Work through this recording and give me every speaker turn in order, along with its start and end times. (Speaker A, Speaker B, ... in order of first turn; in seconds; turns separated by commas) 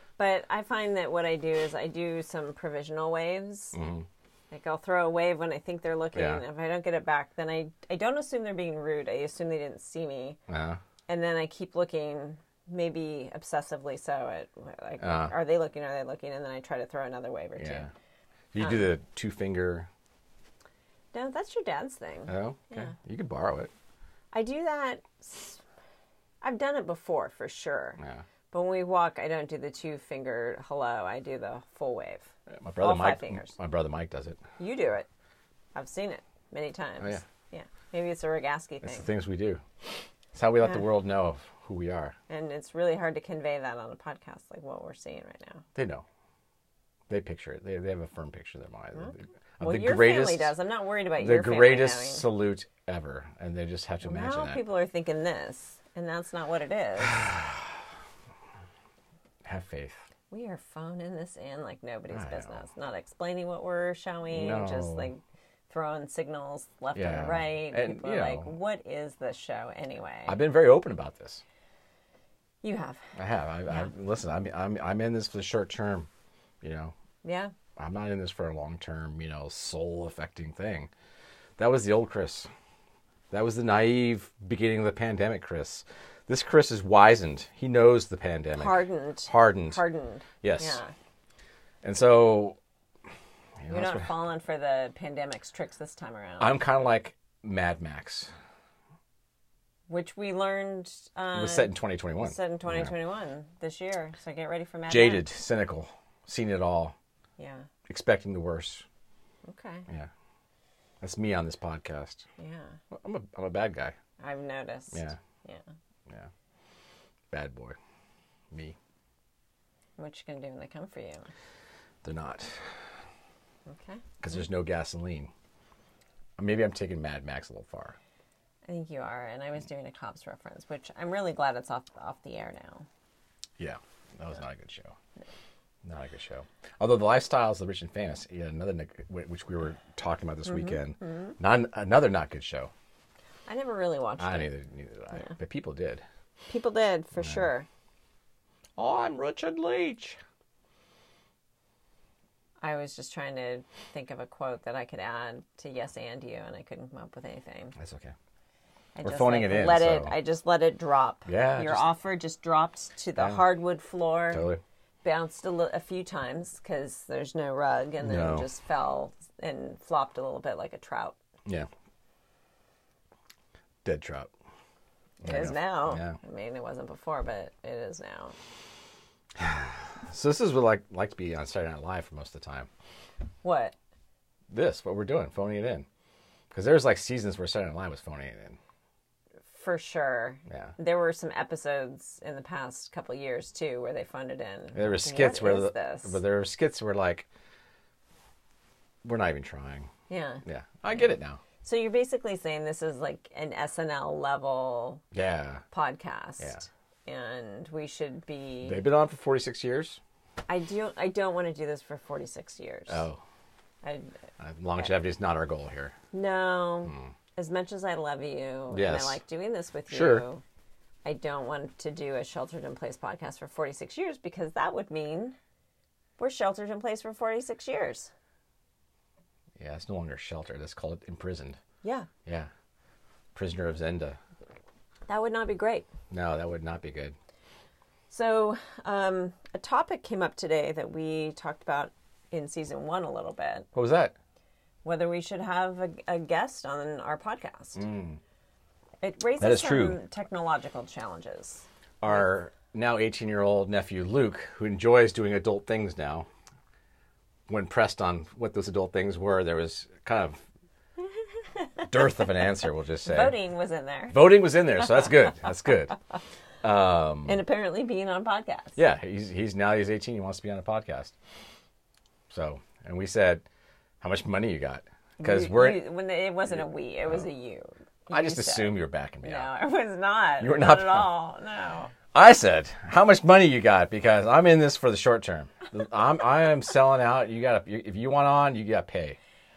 Speaker A: 0.2-3.8, Speaker B: 3.7-4.1, Speaker A: 4.5-10.4, Speaker B: 6.1-6.4, Speaker B: 10.5-10.8, Speaker A: 11.1-17.9, Speaker B: 15.0-15.3, Speaker B: 17.6-17.9, Speaker B: 18.5-19.9, Speaker A: 18.6-18.9, Speaker A: 21.1-22.9, Speaker B: 22.3-23.7, Speaker A: 24.3-25.6, Speaker A: 26.4-33.6, Speaker B: 28.0-28.2, Speaker B: 32.5-34.4, Speaker A: 34.6-35.1, Speaker A: 35.8-39.1, Speaker B: 38.8-39.6, Speaker B: 40.3-42.1, Speaker A: 42.3-45.6, Speaker B: 45.8-46.0, Speaker B: 47.1-50.5, Speaker A: 49.0-52.3, Speaker B: 51.2-54.6, Speaker A: 54.0-57.2, Speaker B: 57.1-57.6, Speaker B: 59.5-60.0, Speaker A: 60.3-70.4, Speaker B: 62.1-62.6, Speaker B: 64.3-65.1, Speaker B: 67.0-68.5, Speaker B: 70.3-71.4, Speaker A: 72.6-73.1, Speaker B: 73.2-76.1, Speaker B: 76.6-76.9, Speaker A: 77.2-77.5, Speaker B: 77.8-80.9, Speaker B: 81.6-82.5, Speaker B: 83.3-89.8, Speaker A: 88.5-90.9, Speaker B: 90.4-90.8, Speaker B: 91.8-92.6, Speaker B: 93.6-94.1, Speaker A: 93.7-96.6, Speaker B: 96.4-98.3, Speaker A: 99.9-105.3, Speaker B: 101.3-102.9, Speaker B: 104.9-107.0, Speaker A: 107.4-107.7, Speaker B: 107.9-108.8, Speaker A: 109.5-109.8, Speaker B: 111.0-112.2, Speaker A: 112.4-112.8, Speaker B: 112.9-114.0, Speaker A: 114.2-115.6, Speaker B: 114.9-115.2, Speaker B: 117.3-117.8, Speaker A: 120.0-121.3, Speaker B: 122.0-122.7, Speaker A: 123.7-124.1, Speaker B: 124.2-125.3, Speaker B: 126.4-128.0, Speaker A: 128.7-132.9, Speaker B: 133.6-134.9, Speaker B: 135.8-142.7, Speaker A: 140.5-141.3, Speaker A: 143.5-144.5, Speaker B: 144.2-146.0, Speaker A: 146.5-147.7, Speaker B: 147.2-147.5, Speaker B: 148.8-150.2, Speaker A: 152.6-157.8, Speaker B: 157.8-158.1, Speaker A: 158.9-164.5, Speaker B: 159.0-160.2, Speaker B: 161.3-161.9, Speaker B: 163.2-163.5, Speaker B: 164.3-164.6, Speaker A: 165.0-171.2, Speaker B: 168.0-168.5, Speaker B: 173.8-174.3, Speaker B: 175.2-176.2, Speaker A: 175.2-178.4, Speaker B: 179.4-182.7, Speaker A: 183.4-183.8, Speaker B: 184.5-185.9, Speaker B: 186.5-188.6, Speaker A: 189.5-196.2, Speaker B: 190.5-190.8, Speaker B: 194.8-197.3, Speaker B: 199.0-199.9, Speaker A: 200.1-200.4, Speaker B: 200.4-201.4, Speaker A: 201.6-205.0, Speaker B: 205.1-205.6, Speaker A: 205.7-208.8, Speaker B: 208.6-210.0, Speaker A: 210.5-213.1, Speaker B: 212.9-213.2, Speaker A: 213.8-214.1, Speaker B: 214.4-215.9, Speaker A: 216.1-220.4, Speaker B: 218.7-219.2, Speaker B: 219.9-220.3, Speaker A: 221.1-225.4, Speaker A: 226.2-228.1, Speaker B: 229.6-231.6, Speaker A: 231.8-232.1, Speaker B: 233.3-234.2, Speaker A: 235.1-235.9, Speaker B: 236.1-237.2, Speaker A: 238.1-243.7, Speaker B: 243.8-244.1, Speaker A: 244.8-247.8, Speaker B: 247.8-248.2, Speaker A: 249.0-251.7, Speaker B: 249.4-250.0, Speaker B: 252.0-256.3, Speaker B: 257.5-260.4, Speaker A: 261.4-262.4, Speaker B: 261.9-263.4, Speaker A: 263.0-264.2, Speaker B: 264.1-266.0, Speaker B: 266.6-267.4, Speaker A: 267.2-268.8, Speaker B: 268.8-271.1, Speaker B: 272.3-273.4, Speaker B: 274.0-275.9, Speaker A: 275.2-281.9, Speaker B: 278.1-279.5, Speaker B: 280.4-281.1, Speaker B: 282.1-289.2